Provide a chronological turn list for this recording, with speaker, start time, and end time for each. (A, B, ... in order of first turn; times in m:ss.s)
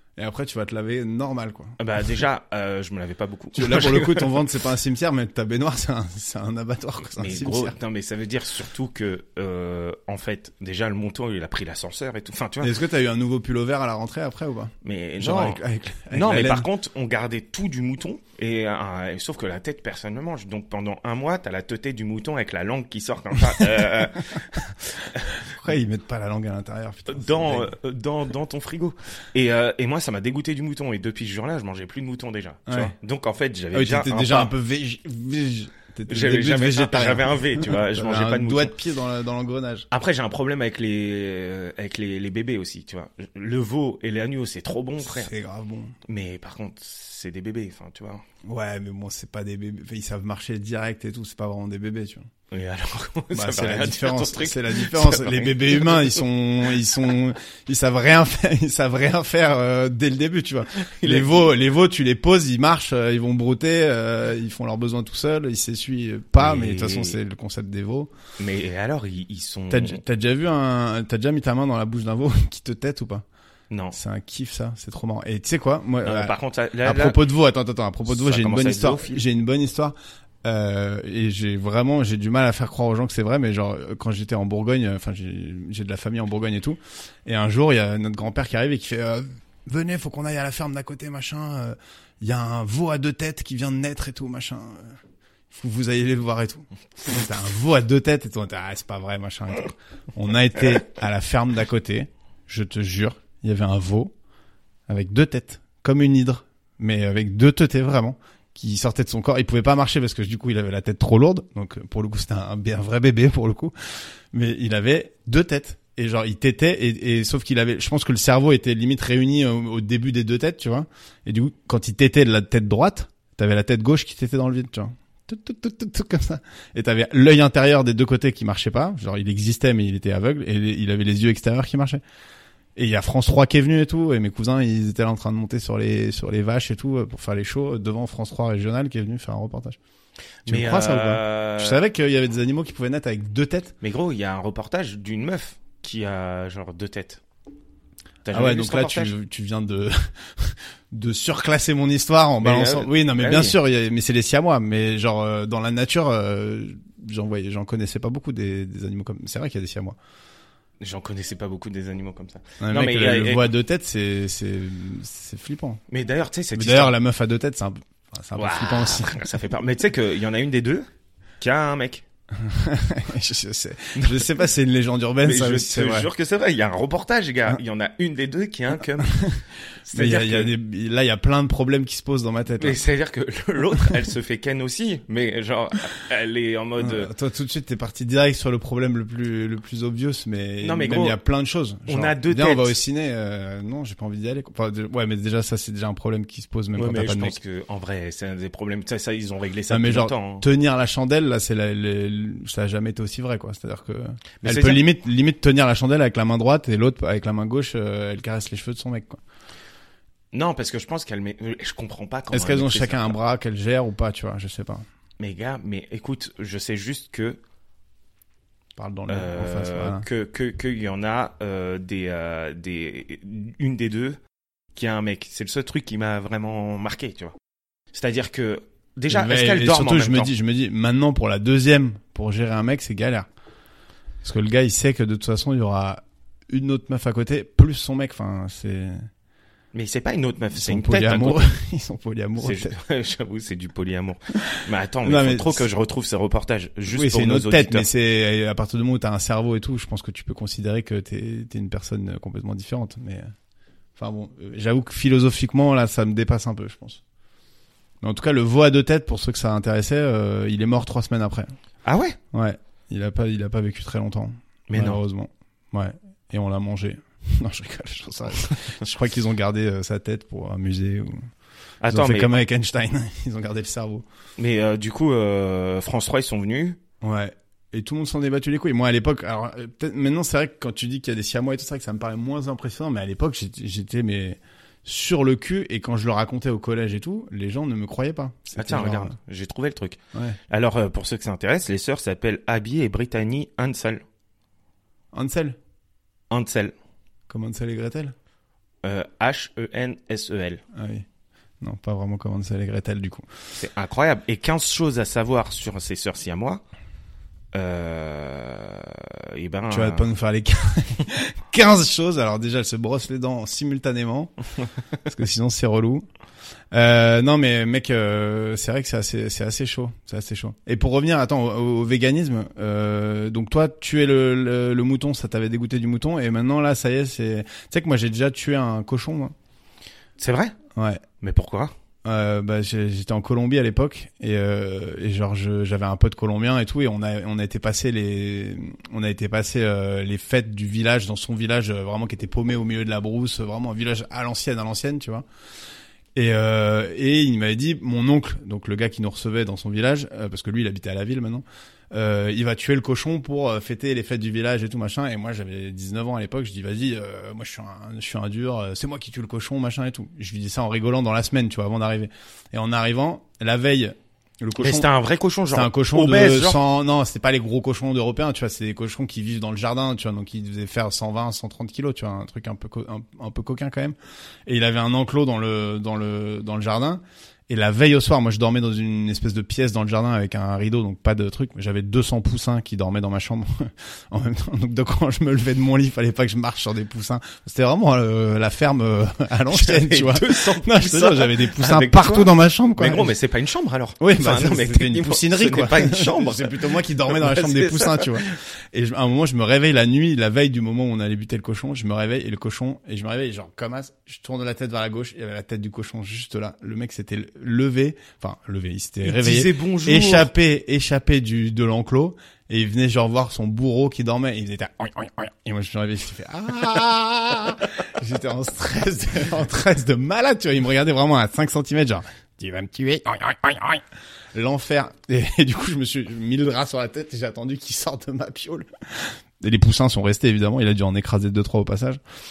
0:00.2-0:01.8 A
0:01.8-0:04.3 B
0:03.5-0:07.8 A
0:07.1-0:12.7 B
0:12.6-0:16.7 A
0:14.8-0:15.6 B
0:16.1-0:25.4 B
0:23.5-0:24.0 A
0:25.5-0:27.7 A
0:27.1-0:34.5 B
0:32.7-0:32.9 A
0:33.7-0:39.9 A
0:36.1-0:38.7 B
0:39.9-0:45.3 B
0:45.0-0:45.9 A
0:46.1-0:48.2 B
0:48.4-0:52.3 A
0:52.5-0:56.2 B
0:53.3-1:08.1 A
1:00.8-1:01.4 B
1:06.4-1:07.2 B
1:08.4-1:10.0 B
1:09.7-1:13.2 A
1:13.7-1:14.0 B
1:13.9-1:35.0 A
1:16.0-1:17.2 B
1:18.1-1:19.2 B
1:35.5-1:44.1 A
1:44.9-1:53.7 A
1:54.3-2:12.0 A
2:12.8-2:19.8 A
2:20.4-2:21.8 B
2:20.4-2:23.7 A
2:23.8-2:27.2 B
2:28.2-2:29.1 B
2:28.3-2:40.0 A
2:32.4-2:33.6 B
2:40.8-2:43.5 B
2:42.6-2:45.8 A
2:45.9-2:47.0 B
2:46.5-2:49.2 A
2:48.4-2:50.9 B
2:51.4-2:52.0 B
2:52.4-2:56.1 A
2:53.9-2:54.3 B
2:55.2-2:59.2 B
2:59.0-2:59.4 A
2:59.8-3:00.5 B
2:59.9-3:02.8 A
3:02.6-3:07.1 B
3:06.8-3:17.4 A
3:10.6-3:11.2 B
3:11.9-3:12.8 B
3:16.8-3:20.4 B
3:19.7-3:29.2 A
3:24.4-3:24.8 B
3:30.3-3:33.2 B
3:32.3-3:34.8 A
3:35.2-3:37.4 B
3:38.8-3:40.0 A
3:39.1-3:44.2 B
3:44.7-3:47.3 B
3:47.9-3:50.3 B
3:49.1-3:53.3 A
3:54.2-3:59.1 A
3:59.7-4:01.5 B
4:00.5-4:02.7 A
4:02.4-4:07.9 B
4:05.0-4:05.6 A
4:06.9-4:13.3 A
4:14.0-4:17.0 A
4:18.0-4:21.5 A
4:21.8-4:22.2 B
4:22.3-4:31.3 A
4:24.7-4:25.0 B
4:31.8-4:32.4 B
4:31.9-4:34.0 A
4:34.4-4:36.8 B
4:37.0-4:49.1 A
4:48.5-4:54.0 B
4:55.1-4:55.6 A
4:56.3-4:56.7 B
4:57.3-4:58.1 A
4:58.8-5:00.6 B
5:00.7-5:01.0 A
5:01.6-5:03.3 A
5:03.6-5:06.6 B
5:07.5-5:10.1 B
5:09.7-5:14.3 A
5:15.0-5:16.0 A
5:16.7-5:29.3 A
5:30.2-5:30.6 B
5:30.8-5:31.0 A
5:31.2-5:31.7 B
5:32.0-5:45.2 A
5:46.1-6:04.9 A
6:04.6-6:06.6 B
6:05.5-6:13.9 A
6:14.4-6:33.1 A
6:29.5-6:38.4 B
6:34.0-7:12.0 A
6:49.0-6:50.3 B